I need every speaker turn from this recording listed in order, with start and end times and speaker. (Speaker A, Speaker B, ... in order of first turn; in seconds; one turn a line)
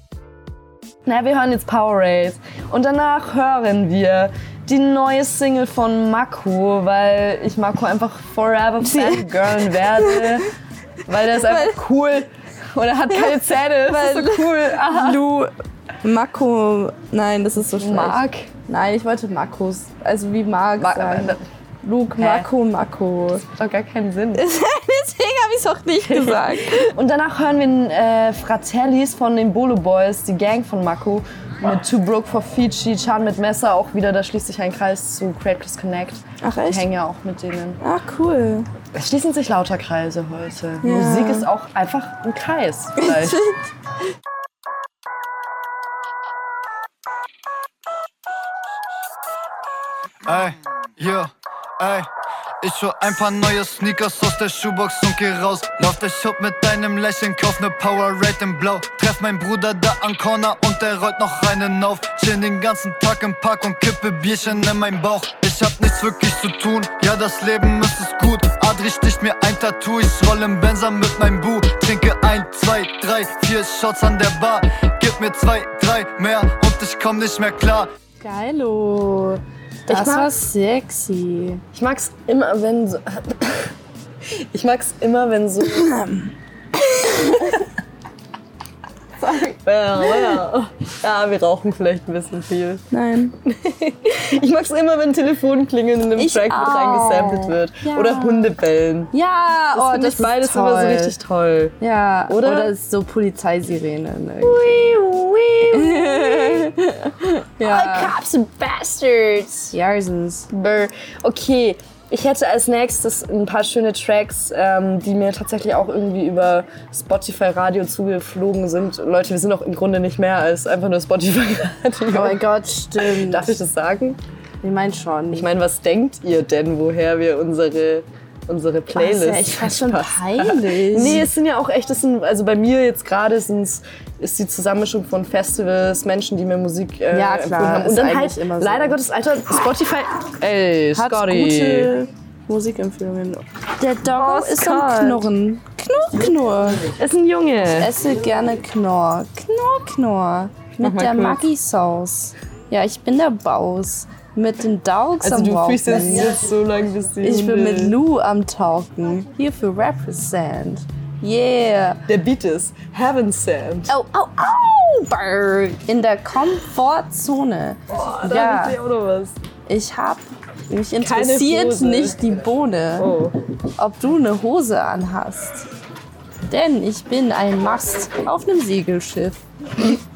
Speaker A: 1.1-10.5
Speaker B: 8.8-10.2
Speaker A: 11.1-15.2
Speaker B: 11.3-11.8
Speaker B: 13.1-15.5
Speaker B: 16.0-23.4
Speaker A: 17.8-18.5
Speaker A: 20.8-21.4
Speaker A: 22.1-22.5
Speaker A: 23.6-24.4
Speaker B: 24.3-26.9
Speaker A: 26.0-37.8
Speaker B: 36.4-36.9
Speaker B: 37.8-38.7
Speaker A: 38.9-43.4
Speaker B: 40.8-41.5
Speaker B: 43.0-43.6
Speaker C: 50.2-52.1
Speaker C: 52.6-77.9
Speaker B: 78.2-81.6
Speaker A: 79.9-80.3
Speaker A: 81.7-83.7
Speaker A: 84.5-85.9
Speaker B: 85.7-86.3
Speaker B: 87.0-87.6
Speaker A: 89.2-92.8
Speaker B: 92.9-93.3
Speaker A: 93.4-99.1
Speaker B: 96.2-98.5
Speaker B: 99.1-101.1
Speaker A: 99.7-101.8
Speaker B: 101.8-104.9
Speaker A: 102.3-102.7
Speaker A: 104.4-106.7
Speaker B: 105.7-108.2
Speaker A: 107.6-109.7
Speaker B: 109.7-110.5
Speaker A: 110.5-122.5
Speaker B: 122.1-123.5
Speaker A: 123.0-124.2
Speaker B: 124.6-125.5
Speaker A: 125.3-141.9
Speaker B: 128.9-131.3
Speaker B: 137.1-139.0
Speaker B: 140.9-146.9
Speaker A: 144.1-145.2
Speaker A: 146.8-147.9
Speaker B: 147.8-156.4
Speaker A: 150.8-151.4
Speaker A: 155.2-158.0
Speaker B: 157.2-162.0
Speaker A: 162.1-163.9
Speaker B: 163.9-168.8
Speaker A: 167.9-169.3
Speaker B: 169.7-173.1
Speaker A: 171.0-172.2
Speaker A: 173.0-173.3
Speaker B: 173.8-175.7
Speaker B: 176.5-180.0